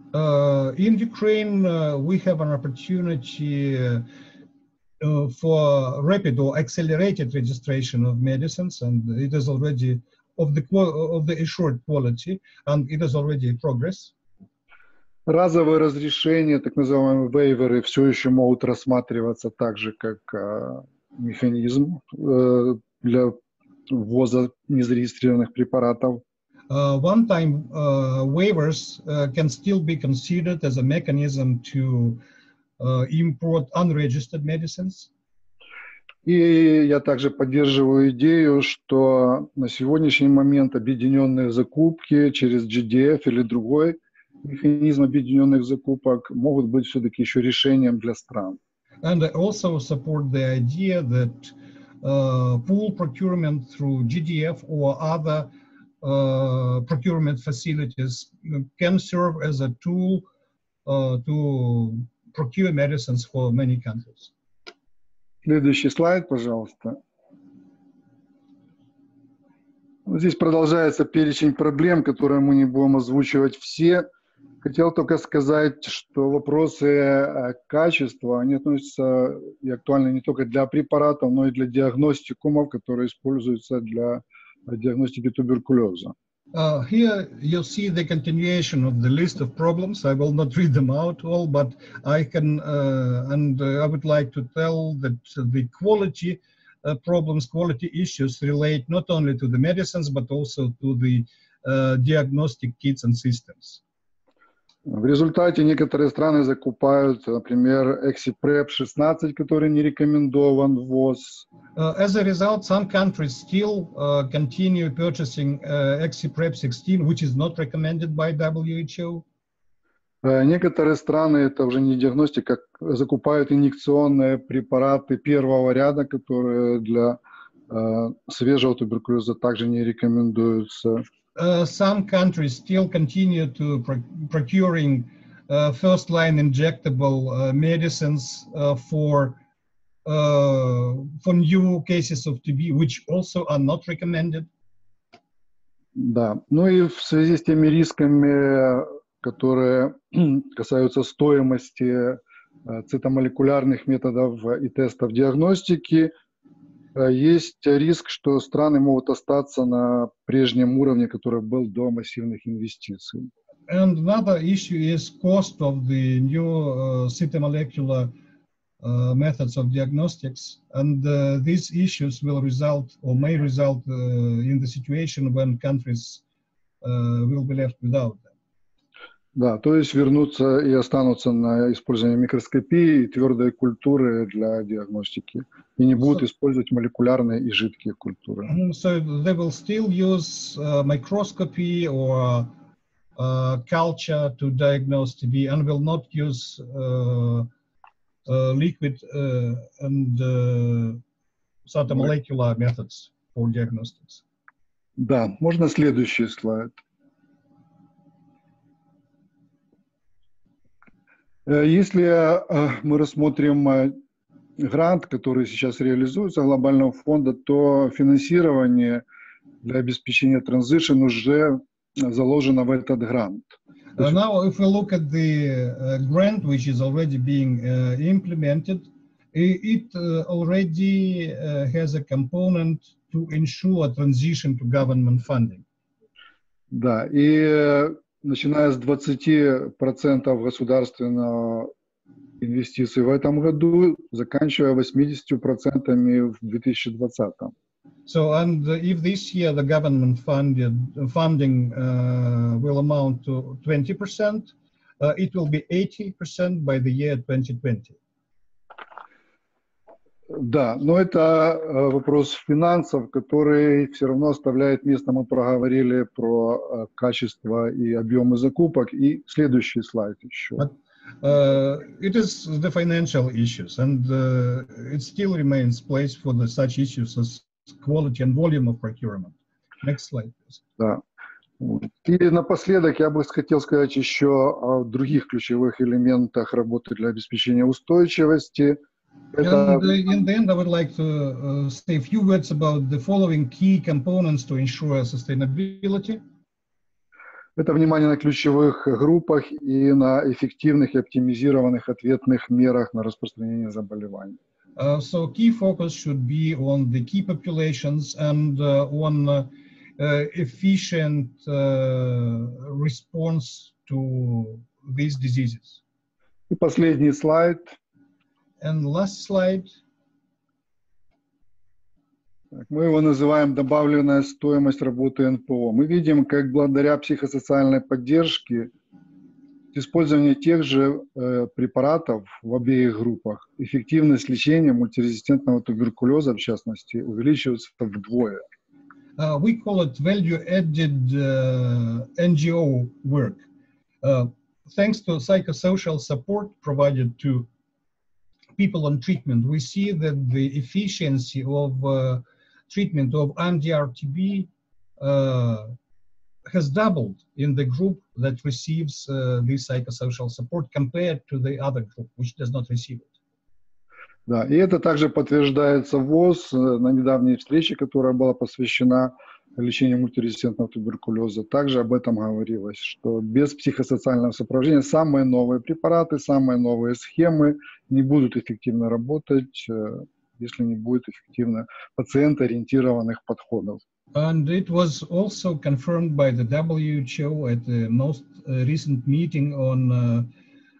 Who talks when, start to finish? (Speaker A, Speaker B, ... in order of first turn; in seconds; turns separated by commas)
Speaker A: 0.1-4.1, Speaker A: 5.0-14.1, Speaker B: 15.3-23.4, Speaker B: 23.9-26.2, Speaker A: 26.7-32.2, Speaker A: 32.8-35.1, Speaker B: 36.2-48.6, Speaker A: 49.0-60.3, Speaker A: 60.9-64.3, Speaker B: 65.5-67.0, Speaker B: 70.1-74.1, Speaker B: 74.6-86.1, Speaker A: 86.5-103.8, Speaker B: 104.9-111.5, Speaker A: 111.8-119.2, Speaker B: 120.2-127.2, Speaker B: 127.7-131.1, Speaker A: 131.4-139.4, Speaker A: 140.1-144.5, Speaker B: 146.0-156.1, Speaker B: 156.9-163.3, Speaker A: 163.7-168.1, Speaker A: 168.8-176.2, Speaker A: 176.8-178.3, Speaker B: 179.4-188.5, Speaker A: 188.4-192.5, Speaker A: 193.2-197.5, Speaker A: 198.3-201.0, Speaker A: 201.7-204.2, Speaker B: 205.0-206.8, Speaker B: 211.5-214.0, Speaker B: 214.6-219.0, Speaker B: 219.6-224.1, Speaker A: 224.0-235.6, Speaker B: 236.7-241.7, Speaker B: 242.4-247.5, Speaker A: 248.1-258.0, Speaker B: 260.3-270.7, Speaker A: 270.6-280.6, Speaker B: 281.6-288.8, Speaker B: 289.3-289.9, Speaker A: 289.4-296.2, Speaker B: 297.6-304.4, Speaker A: 304.8-315.8, Speaker B: 316.5-317.7, Speaker A: 318.6-319.8, Speaker B: 322.6-328.7, Speaker B: 329.7-338.4, Speaker A: 339.2-343.4, Speaker A: 344.0-347.5, Speaker A: 348.6-354.5, Speaker A: 355.0-355.7, Speaker A: 356.5-363.1, Speaker B: 364.3-383.8, Speaker A: 384.1-390.3